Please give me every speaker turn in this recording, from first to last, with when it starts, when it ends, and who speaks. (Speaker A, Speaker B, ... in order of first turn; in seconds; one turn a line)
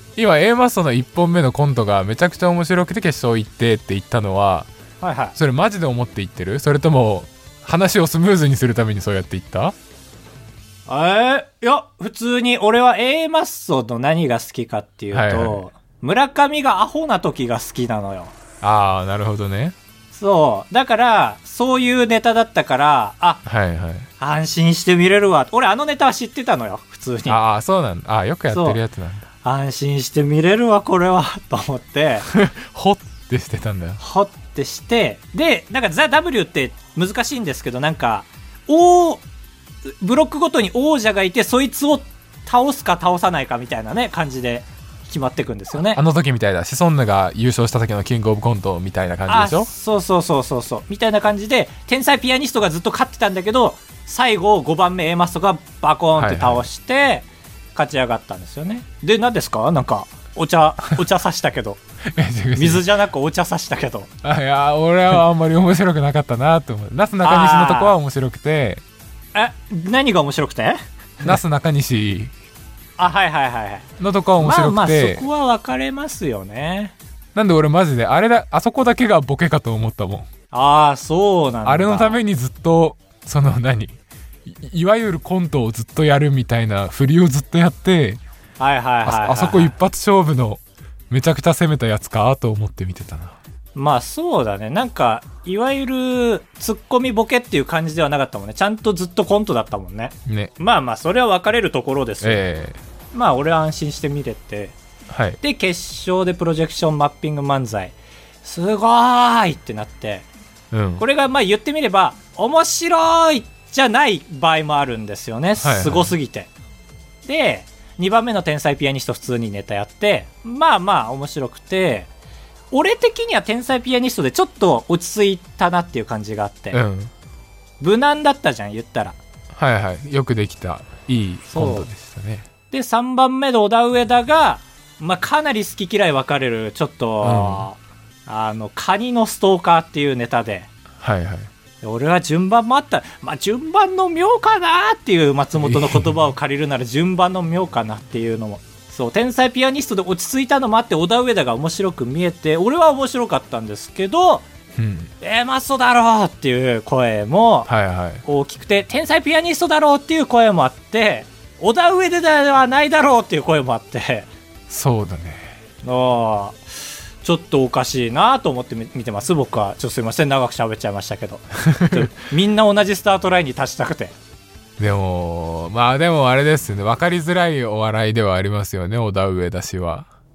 Speaker A: 0.2-4.7
Speaker B: 5.0-5.4
Speaker A: 5.4-9.8
Speaker B: 10.9-18.3
Speaker A: 15.1-15.6
Speaker A: 18.6-19.8
Speaker B: 20.1-23.4
Speaker A: 23.4-24.1
Speaker B: 24.2-27.4
Speaker A: 27.3-29.3
Speaker B: 28.5-28.8
Speaker B: 29.4-32.3
Speaker A: 32.3-34.0
Speaker B: 34.0-39.2
Speaker B: 39.8-46.0
Speaker A: 45.9-49.7
Speaker B: 49.3-61.8
Speaker A: 56.2-56.7
Speaker A: 62.1-62.9
Speaker B: 62.5-64.1
Speaker A: 64.2-68.8
Speaker B: 67.2-68.0
Speaker B: 69.3-71.3
Speaker A: 71.2-72.3
Speaker B: 73.0-73.9
Speaker A: 74.0-75.3
Speaker B: 74.4-76.9
Speaker A: 77.3-80.3
Speaker B: 80.5-82.2
Speaker A: 81.7-88.2
Speaker B: 88.6-89.7
Speaker A: 89.0-93.4
Speaker B: 93.8-102.4
Speaker A: 102.2-102.8
Speaker B: 103.1-104.8
Speaker A: 105.1-105.4
Speaker B: 105.4-110.3
Speaker A: 110.7-111.0
Speaker B: 111.0-116.5
Speaker A: 115.6-116.1
Speaker B: 117.2-122.1
Speaker B: 122.7-126.8
Speaker A: 126.7-127.1
Speaker B: 127.8-129.2
Speaker A: 129.5-132.5
Speaker B: 131.5-131.9
Speaker B: 132.7-140.7
Speaker A: 137.2-137.7
Speaker A: 141.0-141.5
Speaker B: 141.8-154.5
Speaker A: 145.6-146.1
Speaker A: 154.8-155.1
Speaker B: 155.2-157.7
Speaker A: 157.7-158.2
Speaker B: 158.2-164.3
Speaker A: 164.7-165.5
Speaker B: 165.8-166.6
Speaker B: 167.2-174.2
Speaker A: 171.6-172.1
Speaker A: 174.8-180.1